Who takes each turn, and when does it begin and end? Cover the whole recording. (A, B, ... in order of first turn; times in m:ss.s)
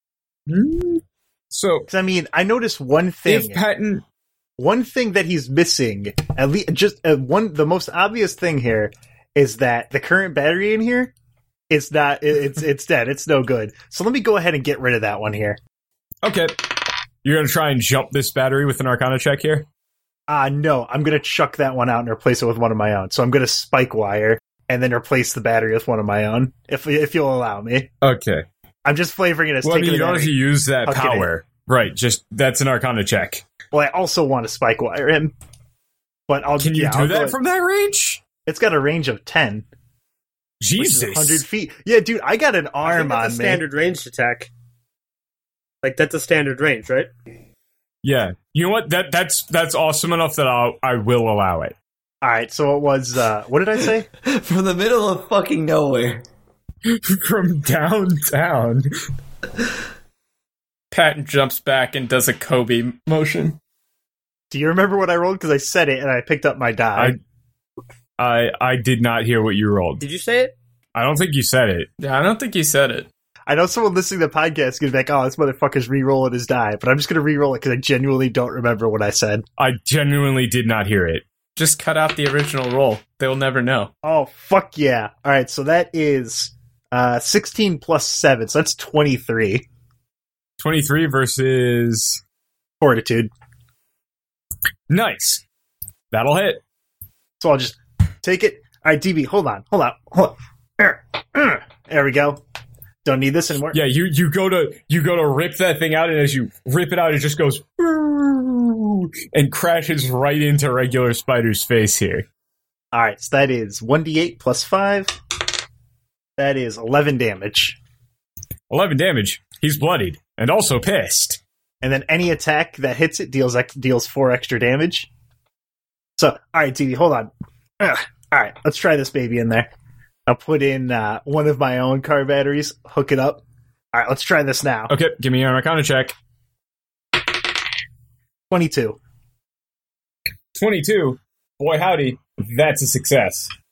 0:00.5-0:01.9 A
0:01.9-0:03.6 B
0:03.2-0:04.0 A
0:04.6-0:11.1 B
0:11.7-0:15.6 B
0:16.2-0:16.7 A
0:17.2-0:19.7 A
0:20.3-0:27.9 B
0:28.0-0:28.4 A
0:28.8-0:31.3 B
0:29.6-0:33.4 A
0:33.7-0:35.3 B
0:36.3-0:37.4 B
0:36.6-0:38.2 A
0:38.4-0:39.6 B
0:40.6-0:41.4 A
0:40.8-0:43.6 B
0:42.8-0:44.5 C
0:45.8-0:47.1 C
0:48.0-0:51.7 A
0:52.2-0:54.1 B
0:54.2-0:56.2 D
0:56.8-0:58.9 A
1:00.9-1:03.6 E
1:04.5-1:07.2 B
1:08.2-1:10.0 A
1:10.0-1:10.5 C
1:10.9-1:11.9 A
1:12.0-1:13.1 E
1:13.5-1:19.4 B
1:19.6-1:21.2 A
1:21.6-1:23.9 E
1:24.0-1:29.6 B
1:30.6-1:32.2 A
1:32.8-1:33.3 B
1:34.9-1:35.4 A
1:36.1-1:36.6 A
1:37.4-1:42.4 B
1:43.0-1:43.8 B
1:43.7-1:52.2 A
1:52.9-1:55.1 B
1:56.4-1:57.8 B
1:58.7-2:01.4 A
2:01.8-2:05.1 B
2:06.2-2:09.7 B
2:10.3-2:14.9 B
2:14.9-2:16.2 A
2:18.5-2:19.0 B
2:20.5-2:23.5 A